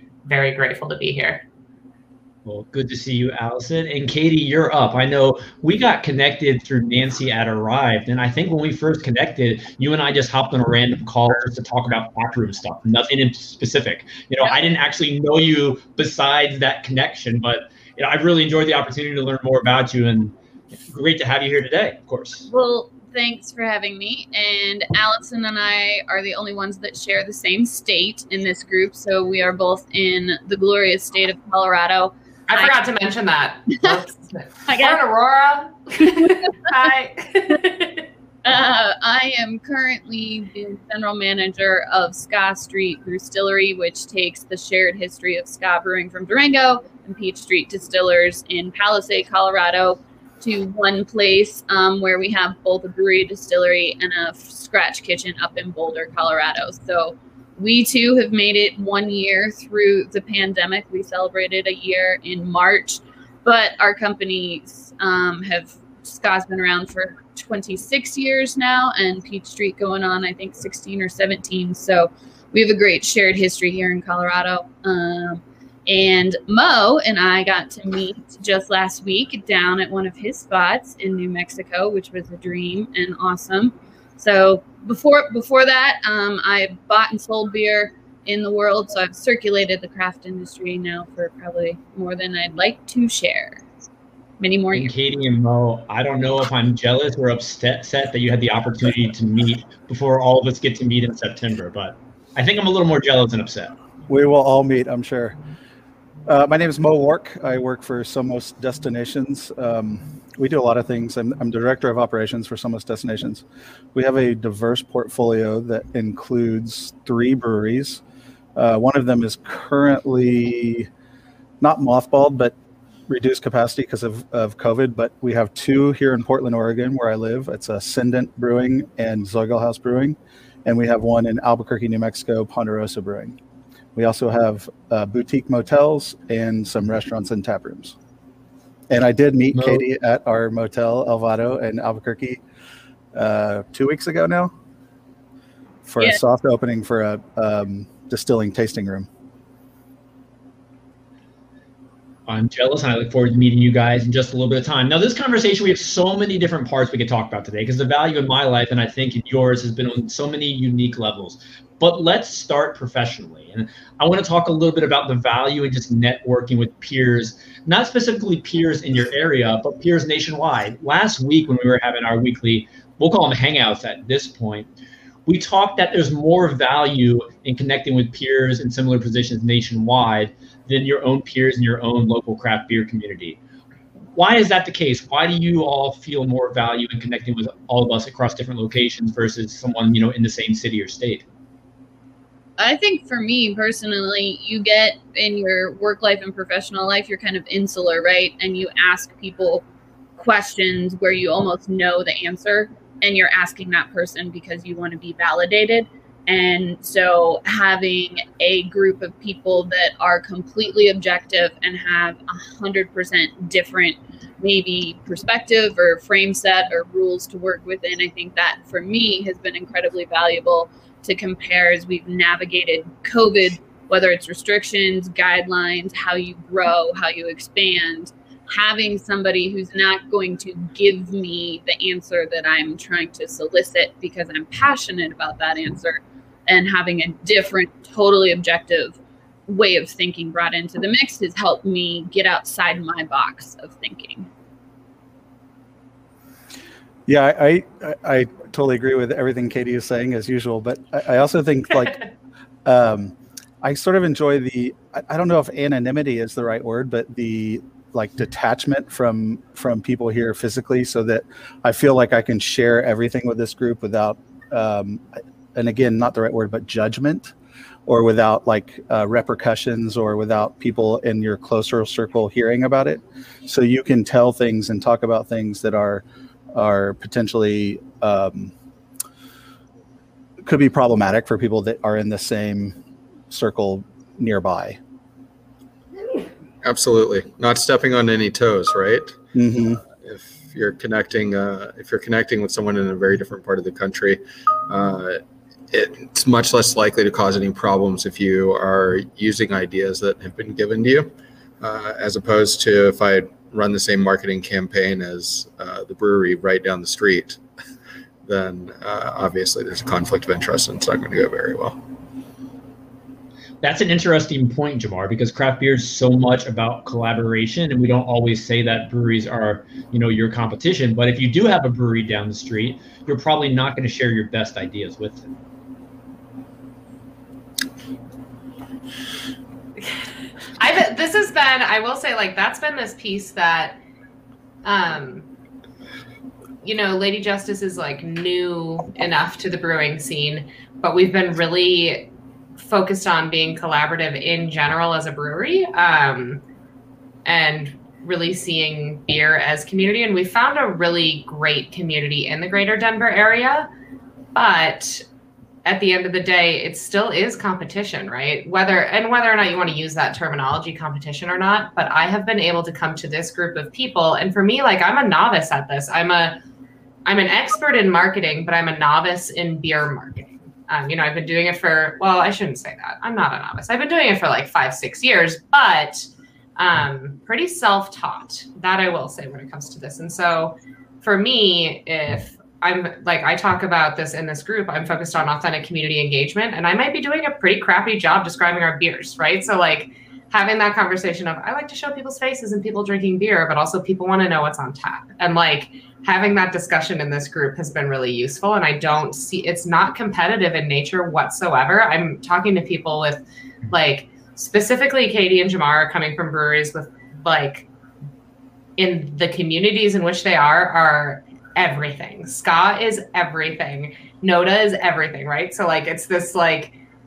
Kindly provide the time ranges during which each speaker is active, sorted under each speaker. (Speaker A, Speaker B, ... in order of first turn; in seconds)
Speaker A: 0.2-1.4, 32.5-38.1, 330.6-333.8, 334.6-335.2, 336.6-342.1, 342.6-346.4, 347.2-353.7, 354.4-355.0, 355.6-366.4, 367.0-376.1, 376.6-407.7, 408.8-416.7
Speaker B: 2.5-20.3, 20.9-22.5, 94.7-103.7, 139.5-139.8, 152.3-174.7, 175.2-183.4, 184.1-191.2, 313.6-325.3
Speaker C: 22.5-32.7, 34.7-35.0, 38.4-93.6, 94.4-94.9, 192.6-199.6, 200.2-244.3
Speaker D: 104.1-105.4, 106.2-118.0, 118.5-120.9, 121.6-122.5, 123.1-133.4, 133.9-137.9, 138.9-142.4, 143.1-144.5, 145.9-149.1, 247.1-252.0, 252.6-267.3, 267.9-278.5, 280.4-282.8, 283.3-284.8, 289.4-289.8
Speaker E: 286.6-289.2, 290.0-307.4, 308.2-311.8